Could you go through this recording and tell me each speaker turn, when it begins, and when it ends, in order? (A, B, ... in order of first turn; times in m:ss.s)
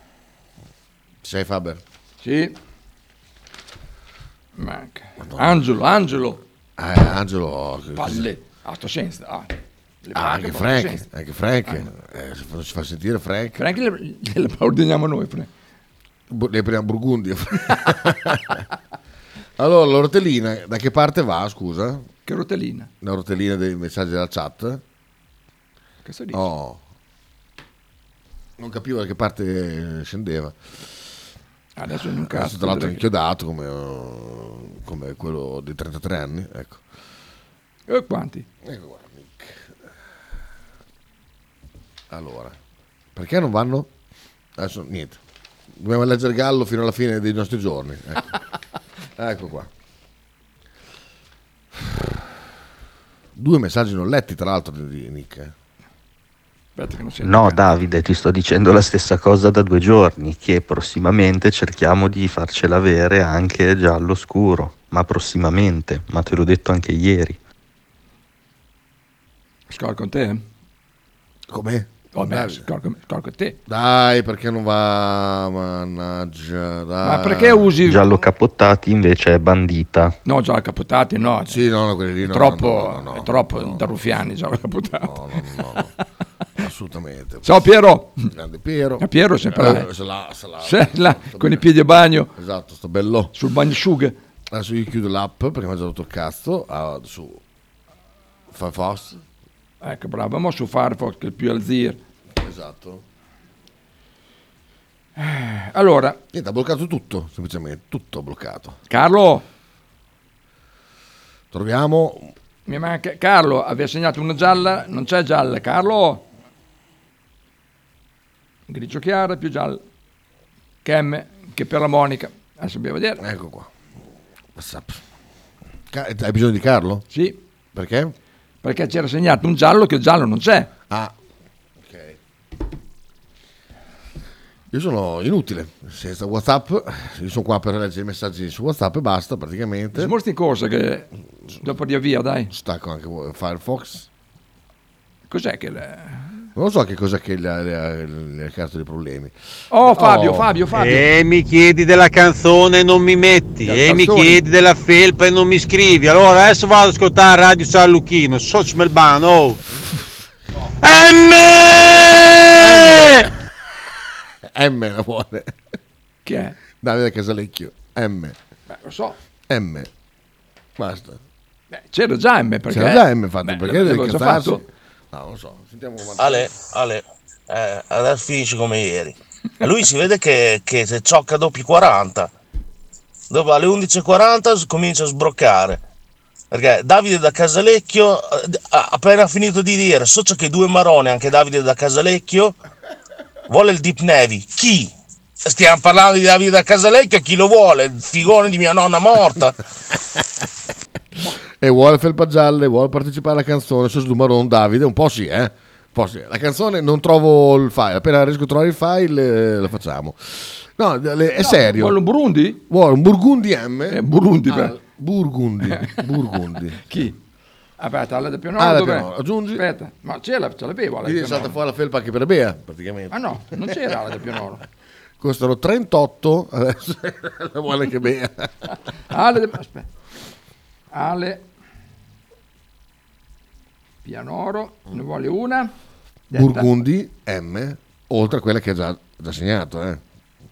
0:01.2-0:01.8 A
0:02.2-0:02.6 B
0:04.6-0:06.4 B
0:05.2-0:05.6 A
0:06.8-0:08.3 A
0:08.0-0:09.5 B
0:10.0-0:11.0 B
0:10.1-0:13.6 A
0:13.6-0:15.5 B
0:16.3-0:18.6 A
0:19.6-0:22.0 A
0:22.2-0:22.9 B
0:23.0-0:24.8 A
0:26.0-0:26.4 B
0:26.3-0:26.8 A
0:28.6-0:30.6 A
0:31.8-0:33.0 B
0:32.2-0:36.8 A
0:37.9-0:38.4 B
0:38.6-0:39.7 A
0:42.1-0:42.6 A
0:43.1-0:43.9 A
0:44.6-0:45.2 A
0:45.7-0:48.4 A
0:49.2-0:49.7 A
0:53.4-0:55.5 A
0:56.8-0:57.6 B
0:57.2-1:07.4 C
1:09.7-1:10.4 B
1:11.5-1:12.6 A
1:12.1-1:13.6 B
1:13.7-1:17.7 A
1:17.0-1:18.2 B
1:17.8-1:20.2 C
1:20.2-1:21.6 B
1:21.5-1:23.8 A
1:22.2-1:25.7 B
1:25.0-1:25.9 A
1:26.6-1:27.6 A
1:27.4-1:28.3 B
1:28.3-1:31.7 A
1:29.0-1:29.9 B
1:30.6-1:32.3 B
1:32.3-1:33.3 A
1:33.3-1:34.1 B
1:34.5-1:37.4 A
1:38.5-1:39.2 A
1:39.8-1:42.0 B
1:42.3-1:43.0 A
1:45.2-1:46.2 B
1:46.3-1:48.8 A
1:48.9-1:49.4 B
1:51.5-1:52.3 A
1:52.7-1:56.2 B
1:58.7-1:59.8 B
2:00.8-2:03.2 B
2:03.2-2:03.7 A
2:04.5-2:05.0 A
2:05.9-2:07.0 A
2:07.1-2:07.4 B
2:07.7-2:08.1 A
2:08.6-2:10.7 B
2:11.8-2:12.2 A
2:14.7-2:20.1 A
2:19.9-2:21.1 B
2:21.6-2:22.5 B
2:22.5-2:24.1 A
2:25.3-2:26.3 B
2:26.5-2:29.3 A
2:29.7-2:31.1 B
2:29.9-2:30.5 A
2:30.7-2:39.6 D
2:33.6-2:34.4 B
2:40.8-2:43.2 D
2:42.6-2:43.3 A
2:44.5-2:45.5 A
2:46.2-2:46.6 B
2:46.8-2:48.4 A
2:48.7-2:49.2 B
2:49.5-2:49.9 A
2:50.8-2:51.2 A
2:51.7-2:54.6 B
2:52.7-2:56.5 A
2:56.2-3:02.3 E
3:03.3-3:05.8 E
3:06.5-3:12.6 E
3:13.5-3:14.9 E
3:15.4-3:19.6 E
3:21.6-3:32.0 A
3:31.4-3:32.6 B
3:32.7-3:36.9 A
3:33.9-3:34.7 B
3:35.7-3:36.0 B
3:36.8-3:37.2 B
3:37.8-3:41.6 B
3:38.6-3:39.6 A
3:41.0-3:44.0 A
3:43.1-3:44.6 B
3:45.2-3:48.7 A
3:49.1-3:49.9 B
3:50.9-3:51.4 B
3:54.0-3:55.7 B
3:56.3-3:56.7 B
3:56.3-4:00.0 A